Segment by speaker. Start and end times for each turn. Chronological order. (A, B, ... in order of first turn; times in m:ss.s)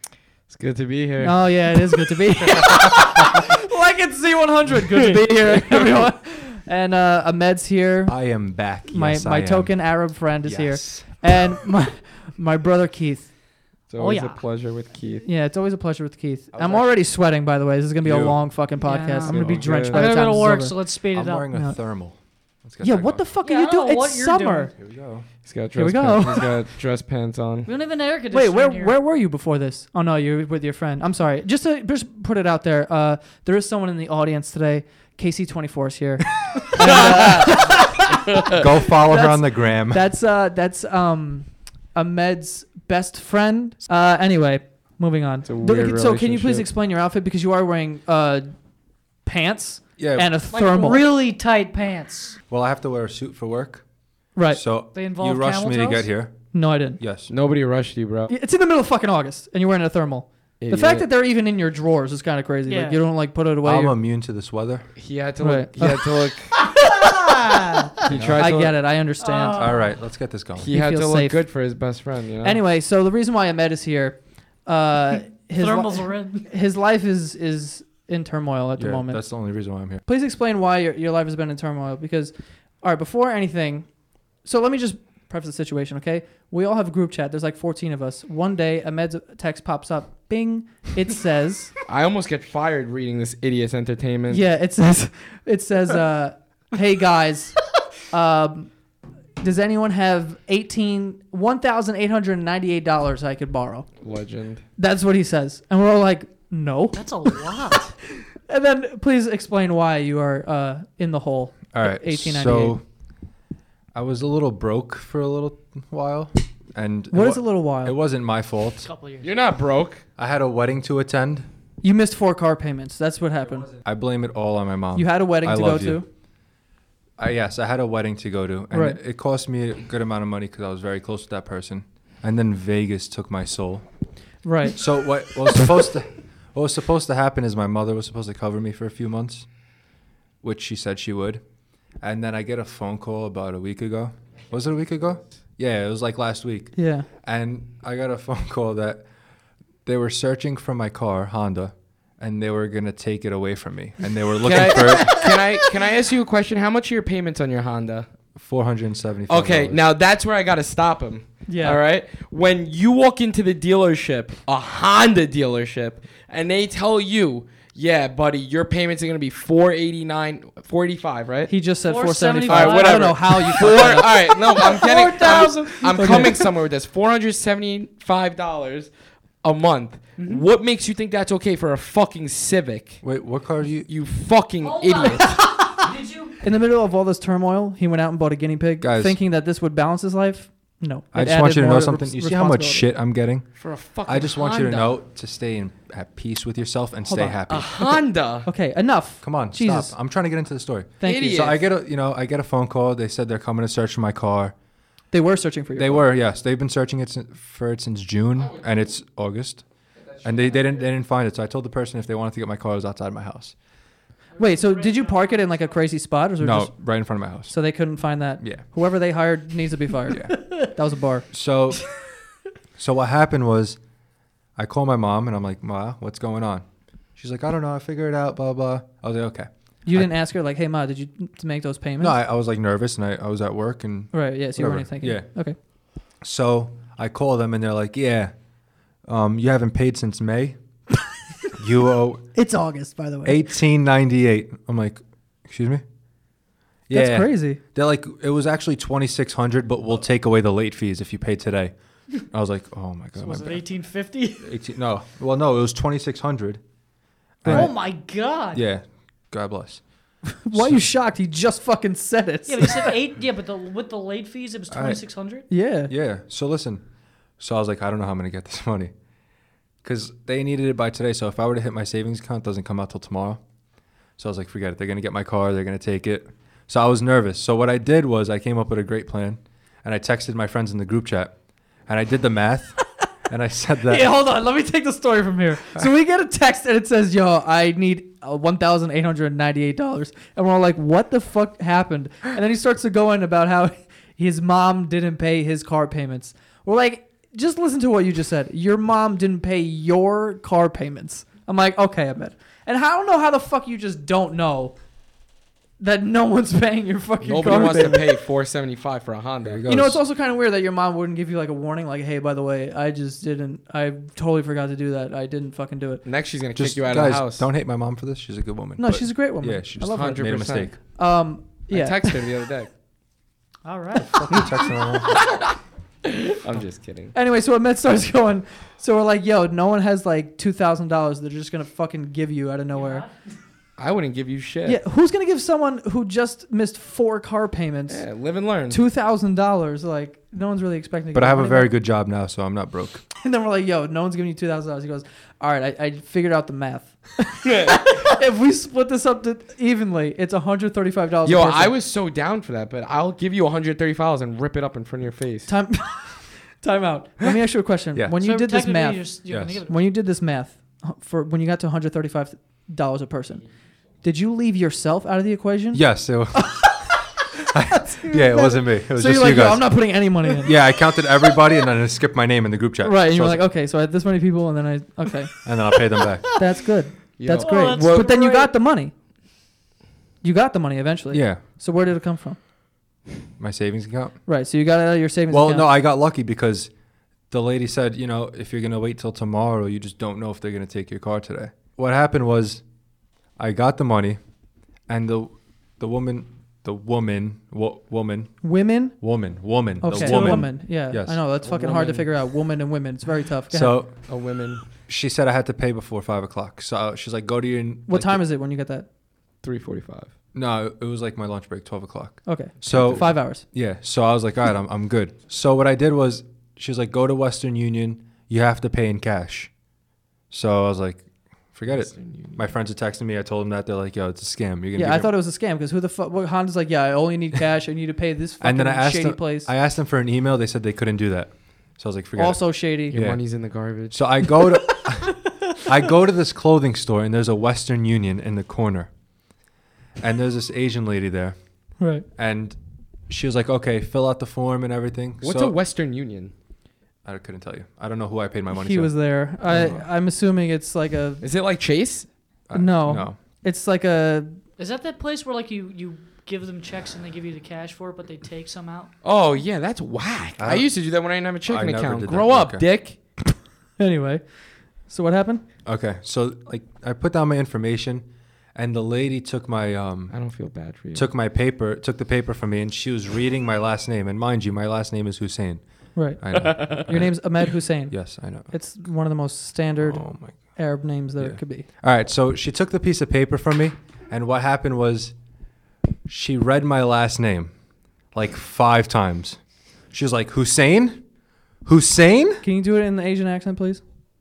0:00.5-0:01.8 A
0:01.2-0:08.2 B
0:05.1-0:05.9 A
0:08.1-0:09.8 C
0:08.9-0:13.3 B
0:10.4-0:11.3 C
0:13.9-0:15.3 A
0:14.0-0:14.4 D
0:15.2-0:20.8 B
0:16.6-0:16.9 A
0:18.0-0:18.4 C
0:18.8-0:21.5 D
0:19.3-0:20.0 A
0:19.3-0:19.9 C
0:21.1-0:23.2 C
0:22.8-0:24.7 B
0:23.4-0:24.7 D
0:24.8-0:25.3 C
0:25.4-0:27.7 A
0:25.8-0:26.5 B
0:27.7-0:29.0 D
0:28.3-0:38.5 B
0:36.9-0:37.6 A
0:38.3-0:38.6 A
0:38.5-0:40.0 C
0:39.1-0:48.5 B
0:45.5-0:46.7 A
0:49.2-0:51.0 B
0:50.0-0:50.3 C
0:50.5-0:52.4 D
0:52.5-0:53.8 C
0:54.4-0:54.6 B
0:54.5-0:57.3 C
0:54.9-0:56.1 D
0:56.5-0:57.0 B
0:57.3-0:58.3 A
0:58.3-1:03.9 B
1:00.6-1:01.1 A
1:02.7-1:03.0 D
1:03.6-1:04.9 C
1:05.0-1:06.6 A
1:05.4-1:06.3 B
1:06.8-1:07.9 D
1:07.2-1:07.8 B
1:08.0-1:08.8 A
1:08.1-1:08.6 C
1:08.4-1:09.6 B
1:09.2-1:09.9 D
1:09.5-1:10.7 C
1:10.6-1:12.6 A
1:10.7-1:11.4 B
1:12.4-1:19.2 B
1:15.6-1:16.5 D
1:18.8-1:20.0 C
1:20.0-1:23.9 B
1:24.4-1:31.7 B
1:31.9-1:34.4 A
1:34.3-1:38.7 B
1:39.4-1:43.9 B
1:44.0-1:44.6 A
1:44.8-1:47.5 B
1:46.9-1:48.0 D
1:48.4-1:52.8 B
1:51.7-1:52.8 C
1:53.9-1:58.9 C
1:57.1-1:58.0 B
1:58.8-1:59.4 D
1:59.2-2:00.0 A
2:00.2-2:01.5 C
2:01.8-2:03.7 B
2:03.8-2:06.0 C
2:05.0-2:06.1 B
2:07.2-2:13.9 C
2:08.7-2:09.0 B
2:14.4-2:14.8 B
2:14.8-2:19.5 C
2:20.4-2:21.4 C
2:22.0-2:29.0 C
2:26.8-2:27.1 B
2:29.8-2:35.2 C
2:34.4-2:35.5 B
2:34.4-2:38.1 A
2:38.4-2:39.9 C
2:39.3-2:51.5 A
2:41.5-2:41.8 B
2:51.5-2:56.5 B
2:51.8-2:53.5 D
2:52.5-3:03.0 A
2:54.8-2:56.3 D
3:00.2-3:00.4 D
3:03.0-3:03.9 C
3:03.9-3:05.4 A
3:04.6-3:06.4 D
3:06.4-3:12.9 B
3:08.8-3:09.2 C
3:11.1-3:13.5 C
3:13.6-3:15.0 A
3:14.0-3:17.7 C
3:17.1-3:19.9 B
3:17.5-3:18.5 A
3:19.2-3:24.5 C
3:21.0-3:21.5 B
3:21.0-3:21.6 A
3:25.1-3:26.1 B
3:25.8-3:29.6 C
3:30.2-3:33.6 C
3:34.4-3:36.8 B
3:34.9-3:35.4 D
3:36.4-3:37.5 C
3:37.5-3:41.3 B
3:40.1-3:40.4 C
3:41.3-3:41.9 C
3:42.8-3:43.8 C
3:44.6-3:46.6 C
3:47.2-3:50.1 C
3:49.9-3:52.2 B
3:52.0-3:55.3 C
3:54.1-3:55.6 B
3:56.2-3:58.3 C
3:59.1-4:00.6 C
4:01.6-4:02.3 C
4:02.4-4:03.4 B
4:03.2-4:05.8 C
4:06.9-4:13.6 C
4:06.9-4:07.6 B
4:13.2-4:14.5 D
4:14.4-4:16.6 C
4:17.4-4:17.8 C
4:17.4-4:17.7 B
4:17.5-4:18.6 D
4:18.5-4:19.8 C
4:20.3-4:22.9 B
4:20.5-4:20.8 C
4:22.5-4:25.5 D
4:24.7-4:25.0 C
4:25.5-4:25.9 B
4:25.9-4:26.8 C
4:27.4-4:28.9 C
4:29.8-4:33.4 C
4:34.2-4:41.4 C
4:41.9-4:44.2 C
4:43.9-5:04.8 B
5:05.8-5:08.1 B
5:07.2-5:09.6 A
5:09.4-5:10.0 C
5:09.7-5:16.0 B
5:16.0-5:17.5 A
5:16.6-5:20.8 C
5:18.8-5:20.2 B
5:19.9-5:20.7 A
5:21.0-5:22.2 B
5:21.7-5:22.7 A
5:23.6-5:24.4 D
5:24.1-5:25.1 C
5:26.1-5:27.1 A
5:27.1-5:33.0 B
5:32.7-5:33.1 D
5:33.8-5:34.8 A
5:34.7-5:38.0 B
5:37.9-5:38.8 A
5:38.7-5:41.7 B
5:41.1-5:43.0 C
5:43.2-5:51.7 B
5:47.4-5:47.8 A
5:51.2-5:55.5 A
5:55.5-5:59.0 B
5:58.2-5:59.8 D
5:59.3-5:59.6 C
5:59.7-6:03.4 B
6:04.0-6:07.0 B
6:05.7-6:06.8 C
6:07.5-6:09.8 C
6:07.7-6:10.6 B
6:10.4-6:13.5 C
6:12.8-6:15.3 B
6:15.4-6:16.3 C
6:16.4-6:18.9 B
6:17.2-6:18.1 A
6:17.3-6:18.5 D
6:20.2-6:22.4 B
6:21.1-6:21.4 C
6:23.4-6:24.2 C
6:24.3-6:25.7 B
6:25.3-6:26.7 C
6:27.3-6:32.6 C
6:33.4-6:34.2 C
6:34.9-6:38.4 C
6:38.4-6:39.0 B
6:39.0-6:41.2 C
6:39.8-6:43.8 B
6:39.9-6:40.5 D
6:41.4-6:42.1 A
6:43.5-6:44.1 C
6:44.1-6:44.6 A
6:44.8-6:48.2 C
6:47.9-6:48.9 B
6:49.4-6:50.1 A
6:50.3-6:59.5 C
6:52.3-6:53.4 B
6:52.7-6:53.0 A
7:00.3-7:05.1 C
7:01.7-7:02.4 A
7:04.8-7:09.5 B
7:08.4-7:13.2 C
7:12.2-7:13.0 B
7:12.9-7:14.0 A
7:13.9-7:18.9 C
7:20.0-7:21.4 C
7:21.8-7:22.1 B
7:22.2-7:22.6 C
7:23.1-7:25.6 C
7:25.2-7:26.3 A
7:27.0-7:28.9 C
7:28.5-7:31.2 B
7:31.2-7:32.1 A
7:32.5-7:33.2 C
7:32.5-7:34.4 B
7:34.6-7:38.9 D
7:39.0-7:43.0 A
7:40.4-7:40.7 C
7:41.5-7:42.6 C
7:43.8-7:44.2 B
7:44.9-7:45.4 B
7:45.6-7:50.1 C
7:50.1-7:51.1 A
7:50.9-7:55.6 C
7:56.0-7:58.0 B
7:56.2-7:57.1 C
7:57.9-7:58.5 C
7:58.5-8:01.7 B
7:59.8-8:00.4 C
8:01.2-8:05.1 C
8:06.1-8:07.5 C
8:08.1-8:09.4 C
8:09.9-8:11.0 C
8:11.6-8:12.4 C
8:12.4-8:13.8 B